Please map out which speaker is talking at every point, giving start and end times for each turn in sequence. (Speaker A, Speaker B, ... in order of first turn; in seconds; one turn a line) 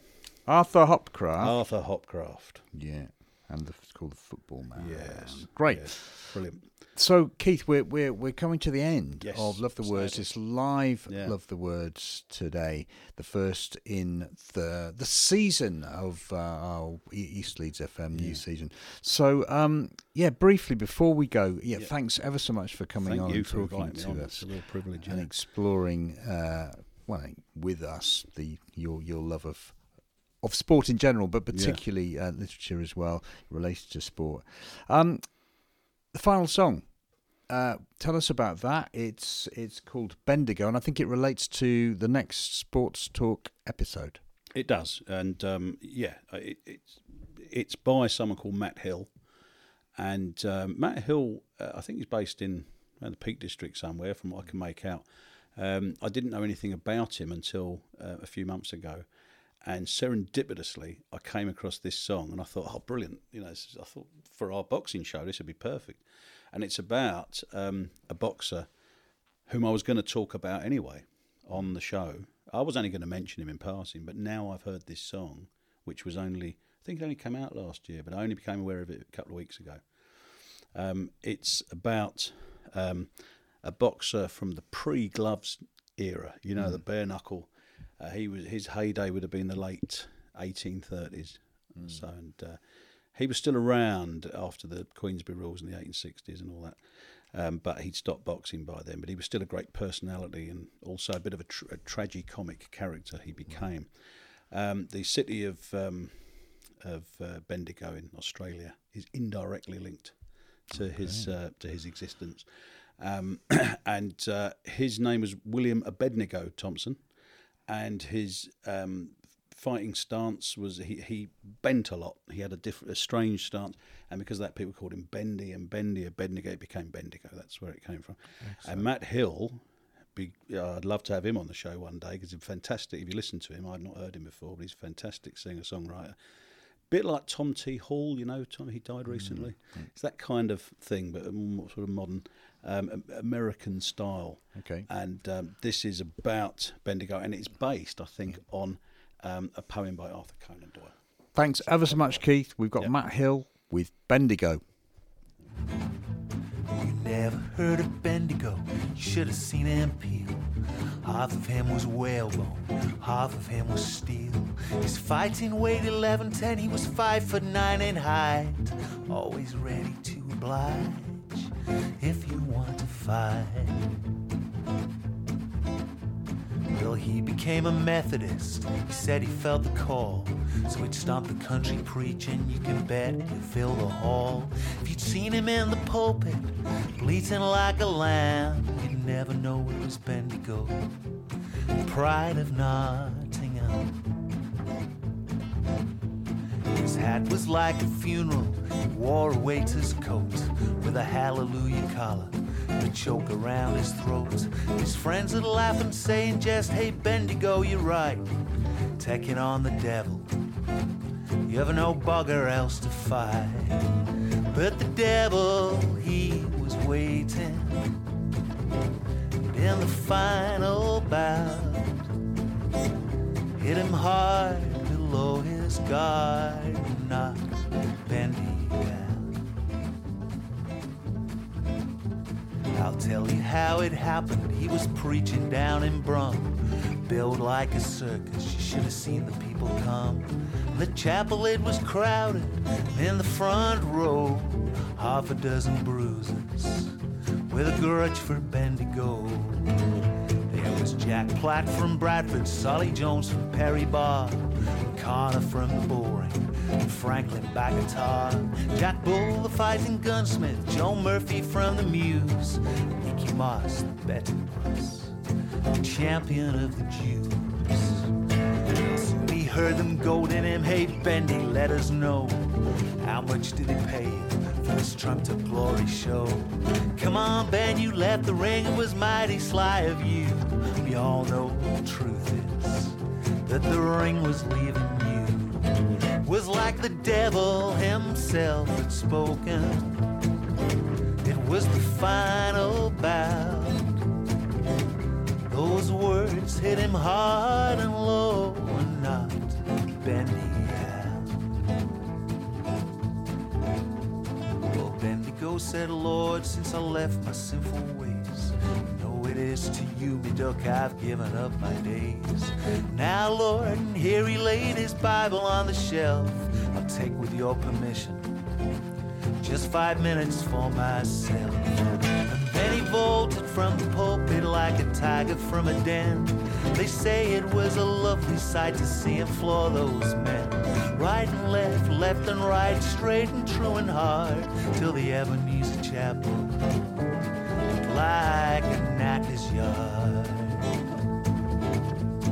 Speaker A: 0.5-1.6
Speaker B: 1.4-2.6
Speaker A: 2.7-36.9
Speaker B: 4.8-6.7
Speaker B: 9.2-10.5
Speaker B: 11.0-11.4
Speaker B: 18.1-18.4
Speaker B: 23.0-25.3
Speaker B: 31.5-31.8
Speaker A: 37.4-44.2
Speaker B: 44.5-49.1
Speaker B: 50.0-59.1
Speaker B: 59.6-68.7
Speaker B: 69.5-92.6
Speaker A: 86.6-86.8
Speaker A: 91.8-92.0
Speaker B: 93.1-96.8
Speaker B: 97.3-103.9
Speaker B: 104.5-110.2
Speaker B: 110.7-112.5
Speaker A: 110.7-111.3
Speaker B: 113.0-117.0
Speaker B: 117.7-136.1
Speaker A: 128.4-128.9
Speaker B: 136.9-152.9
Speaker A: 139.1-139.9
Speaker A: 144.5-144.9
Speaker A: 151.3-154.6
Speaker C: 156.7-173.9
Speaker C: 176.7-190.9
Speaker C: 191.8-194.0
Speaker C: 196.7-208.3
Speaker C: 209.0-210.3
Speaker C: 211.4-214.0
Speaker C: 214.5-217.9
Speaker C: 219.4-222.1
Speaker C: 223.6-229.3
Speaker C: 232.7-247.0
Speaker C: 247.5-249.8
Speaker C: 250.5-265.1
Speaker C: 265.8-268.1
Speaker C: 268.7-272.5
Speaker C: 273.0-290.0
Speaker C: 291.2-294.0
Speaker C: 295.5-301.3
Speaker C: 304.6-318.3
Speaker C: 319.4-336.6
Speaker C: 337.8-340.7